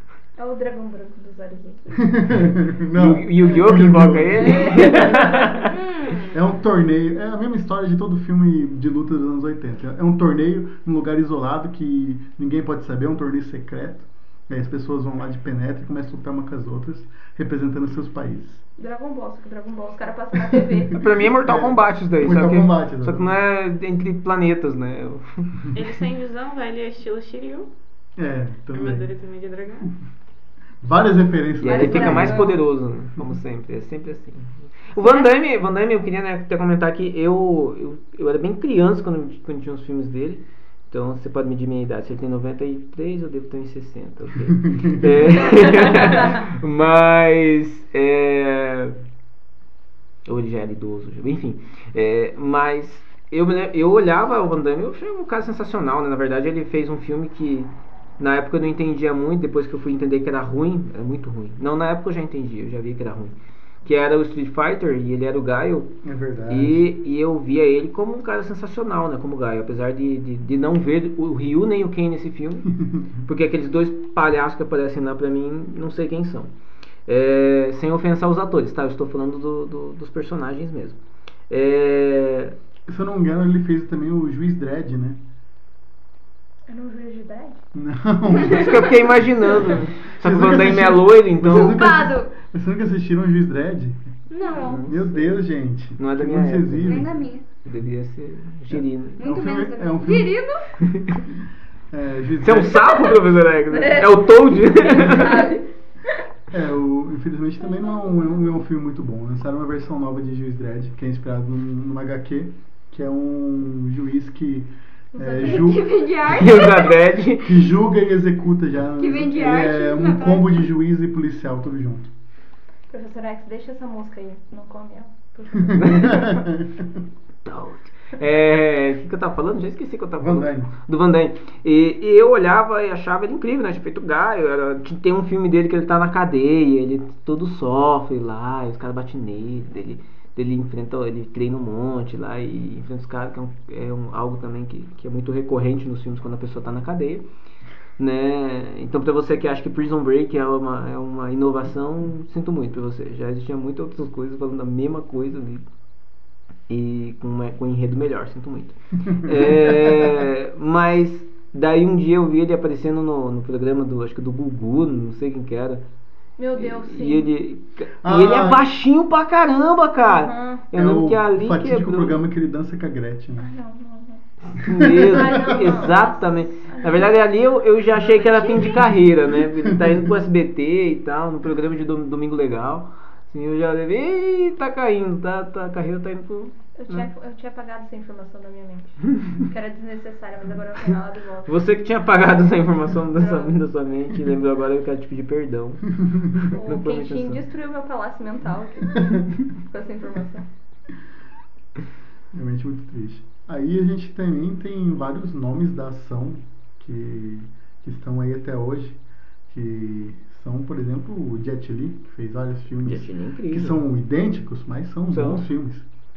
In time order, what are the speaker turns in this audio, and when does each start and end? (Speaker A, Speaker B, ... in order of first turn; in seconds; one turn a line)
Speaker A: 0.4-2.3
Speaker B: 2.1-5.3
Speaker C: 2.9-5.7
Speaker A: 4.6-5.4
Speaker D: 5.7-6.4
Speaker B: 6.3-18.6
Speaker A: 18.8-21.0
Speaker C: 21.0-25.6
Speaker B: 21.3-23.4
Speaker E: 25.7-27.7
Speaker B: 28.2-29.1
Speaker E: 28.7-29.9
Speaker B: 30.8-32.5
Speaker C: 31.6-49.0
Speaker D: 31.6-32.5
Speaker D: 35.0-35.3
Speaker C: 50.2-66.0
Speaker B: 66.0-66.9
Speaker C: 66.5-76.5
Speaker B: 72.9-73.2
Speaker C: 77.1-81.0
Speaker C: 81.5-82.6
Speaker B: 82.9-85.2
Speaker A: 86.7-87.6
Speaker B: 87.7-97.3
Speaker C: 88.3-91.8
Speaker D: 91.5-92.3
Speaker D: 94.3-94.8
Speaker C: 94.5-95.4
Speaker C: 96.0-99.2
Speaker D: 96.8-97.4
Speaker B: 98.7-100.5
Speaker D: 99.2-100.7
Speaker C: 100.9-101.2
Speaker B: 101.9-103.0
Speaker C: 102.4-105.5
Speaker A: 103.7-105.7
Speaker B: 106.5-116.0
Speaker A: 115.1-115.9
Speaker D: 115.4-117.0
Speaker C: 116.3-117.6
Speaker B: 117.4-122.1
Speaker D: 119.0-120.6
Speaker A: 122.9-126.4
Speaker B: 125.7-126.7
Speaker C: 125.8-126.2
Speaker C: 127.5-147.3
Speaker B: 130.2-130.7
Speaker C: 148.0-155.7
Speaker C: 156.7-165.8
Speaker B: 159.1-159.9
Speaker A: 166.4-167.3
Speaker C: 166.6-172.2
Speaker B: 168.0-168.6
Speaker A: 170.1-170.7
Speaker B: 170.7-173.5
Speaker A: 173.4-174.2
Speaker C: 174.5-187.1
Speaker B: 174.7-175.7
Speaker A: 175.1-177.1
Speaker E: 178.1-178.7
Speaker A: 178.3-178.6
Speaker A: 186.8-191.5
Speaker C: 191.5-197.4
Speaker A: 193.2-193.6
Speaker A: 196.5-199.1
Speaker A: 199.7-200.5
Speaker B: 202.3-215.9
Speaker C: 212.8-213.8
Speaker C: 215.1-215.4